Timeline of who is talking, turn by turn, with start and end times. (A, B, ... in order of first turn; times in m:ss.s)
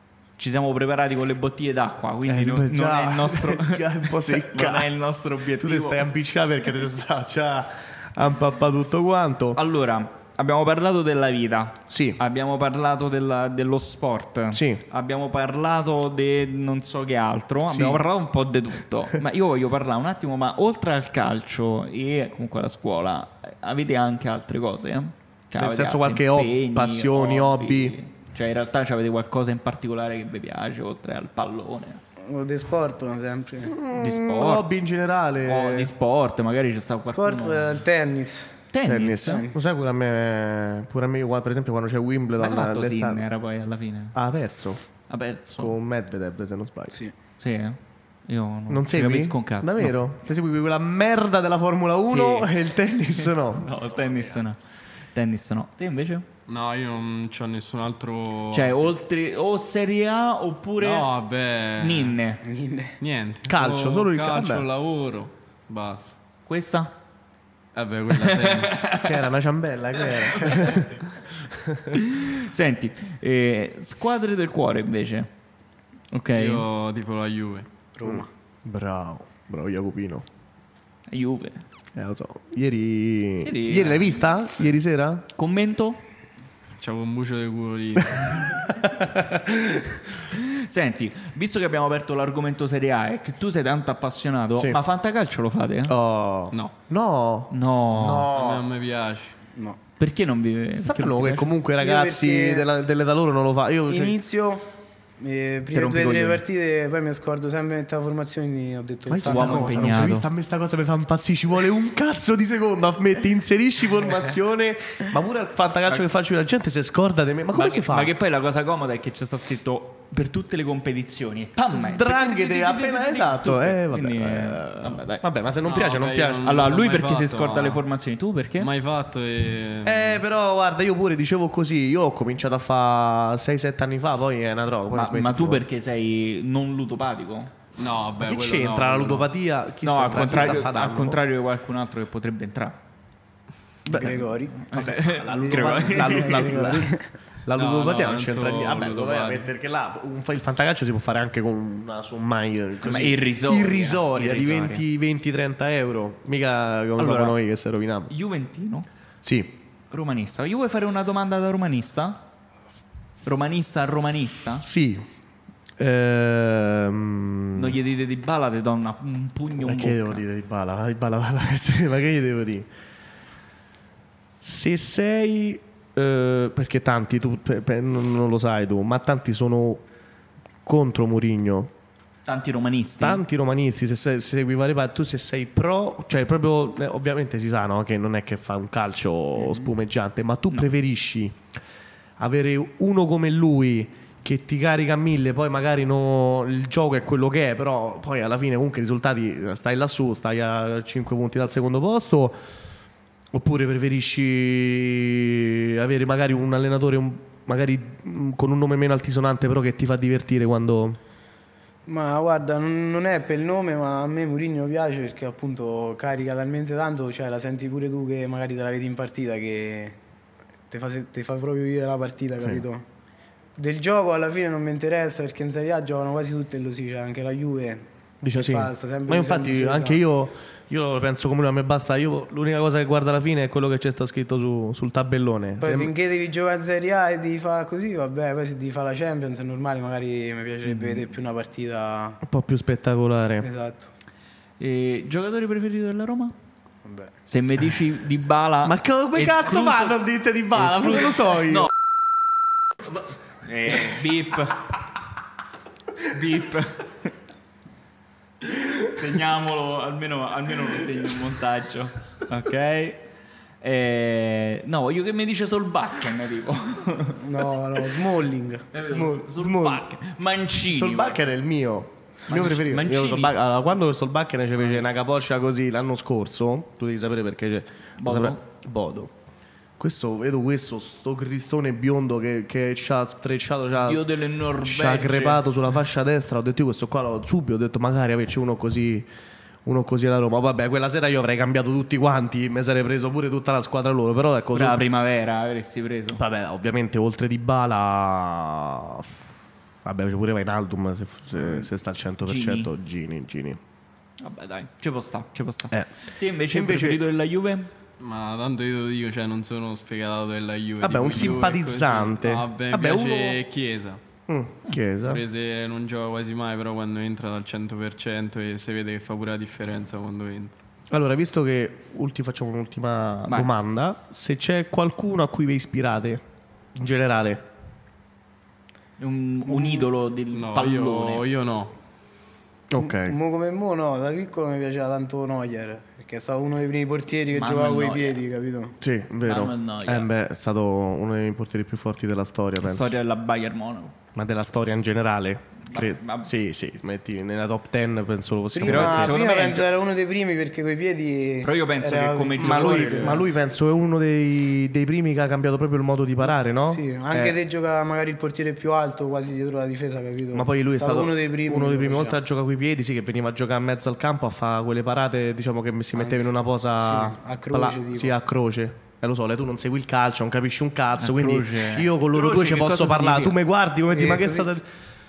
0:00.4-0:06.0 A
0:02.2-0:04.9 B
0:05.6-0:09.6 B
0:09.6-0:32.0 A
0:11.9-0:12.2 B
0:14.5-0:14.8 B
0:17.6-0:18.0 B
0:25.6-0:28.0 B
0:32.3-0:33.8 C
0:33.7-0:35.9 B
0:33.9-0:34.7 A
0:35.4-0:37.8 A
0:37.1-0:38.6 C
0:38.7-0:39.4 A
0:38.9-0:43.2 B
0:39.2-0:39.7 C
0:42.4-0:44.2 A
0:44.1-0:44.8 B
0:45.1-0:45.7 A
0:45.6-0:47.0 B
0:47.4-0:50.0 A
0:48.7-0:53.7 B
0:52.0-0:52.5 A
0:53.2-0:54.6 A
0:55.1-0:56.2 A
0:56.5-0:58.9 D
0:58.5-1:01.1 A
1:00.8-1:02.2 D
1:01.8-1:02.4 A
1:02.4-1:03.0 C
1:03.0-1:06.2 D
1:03.5-1:04.7 B
1:06.5-1:06.9 A
1:07.7-1:08.8 D
1:08.2-1:09.2 A
1:09.0-1:12.0 B
1:10.4-1:10.8 A
1:11.9-1:15.3 A
1:16.1-1:16.6 A
1:16.4-1:17.7 D
1:18.0-1:18.3 C
1:18.0-1:20.3 B
1:21.1-1:21.6 A
1:22.0-1:25.3 B
1:23.4-1:24.3 A
1:25.4-1:26.0 A
1:26.8-1:28.5 D
1:28.7-1:30.0 B
1:30.3-1:36.0 A
1:35.9-1:38.6 B
1:37.5-1:38.3 A
1:38.3-1:39.4 D
1:40.0-1:41.5 A
1:40.7-1:44.2 B
1:41.8-1:42.7 C
1:43.9-1:50.0 C
1:45.7-1:46.4 A
1:49.1-1:58.1 B
1:49.2-1:50.3 A
1:57.5-2:05.2 A
2:01.7-2:06.5 B
2:05.6-2:07.8 D
2:06.4-2:08.7 A
2:08.6-2:10.2 D
2:09.8-2:15.6 B
2:14.9-2:17.5 A
2:17.8-2:19.3 D
2:18.2-2:21.2 B
2:19.8-2:22.8 A
2:20.1-2:21.1 D
2:23.9-2:27.1 C
2:23.9-2:38.1 B
2:23.9-2:26.7 A
2:27.6-2:29.5 D
2:32.8-2:34.8 A
2:37.0-2:37.4 A
2:38.1-2:38.9 A
2:39.2-2:39.6 B
2:39.9-2:42.2 A
2:43.2-2:44.7 A
2:44.7-2:45.1 B
2:45.8-2:47.8 B
2:47.6-2:50.2 A
2:49.6-2:52.7 B
2:54.4-2:59.8 B
3:00.6-3:01.7 B
3:02.3-3:03.2 A
3:03.0-3:11.4 B
3:12.2-3:22.4 B
3:23.3-3:31.0 B
3:31.9-3:40.0 C
3:40.7-3:42.8 C
3:43.6-3:50.0 C
3:48.2-3:55.9 B
3:55.6-4:02.2 C
4:00.7-4:01.0 B
4:02.2-4:03.5 B
4:03.4-4:03.9 C
4:04.6-4:06.4 A
4:06.8-4:07.1 C
4:07.3-4:10.0 A
4:08.6-4:11.7 B
4:10.6-4:11.7 A
4:13.4-4:14.8 A
4:16.0-4:17.1 A
4:18.4-4:23.0 A
4:23.6-4:27.2 A
4:27.2-4:28.7 C
4:28.7-4:31.2 A
4:28.9-4:29.9 B
4:30.7-4:39.1 B
4:32.3-4:33.4 A
4:38.0-4:38.4 A
4:39.8-4:49.1 B
4:43.8-4:45.4 A
4:49.6-4:54.8 B
4:54.5-4:56.2 A
4:56.2-4:59.3 B
4:59.8-5:03.6 B
5:02.2-5:02.7 A
5:04.2-5:07.7 A
5:06.5-5:07.1 B
5:08.0-5:14.0 D
5:10.8-5:13.4 B
5:14.3-5:15.2 B
5:15.0-5:20.5 D
5:20.9-5:26.2 B
5:26.8-5:27.4 B
5:29.0-5:31.2 A
5:30.3-5:31.7 D
5:32.7-5:33.2 B
5:32.8-5:38.8 C
5:37.3-5:38.2 A
5:38.8-5:42.9 B
5:39.3-5:40.1 A
5:42.6-5:43.9 A
5:44.2-5:49.2 B
5:45.6-5:46.3 A
5:48.5-5:53.3 C
5:48.6-5:49.7 A
5:51.4-5:53.3 A
5:52.4-5:57.4 B
5:56.7-6:02.2 C
6:00.3-6:14.7 B
6:06.0-6:06.3 C
6:06.8-6:08.2 C
6:11.0-6:13.4 A
6:13.9-6:14.6 C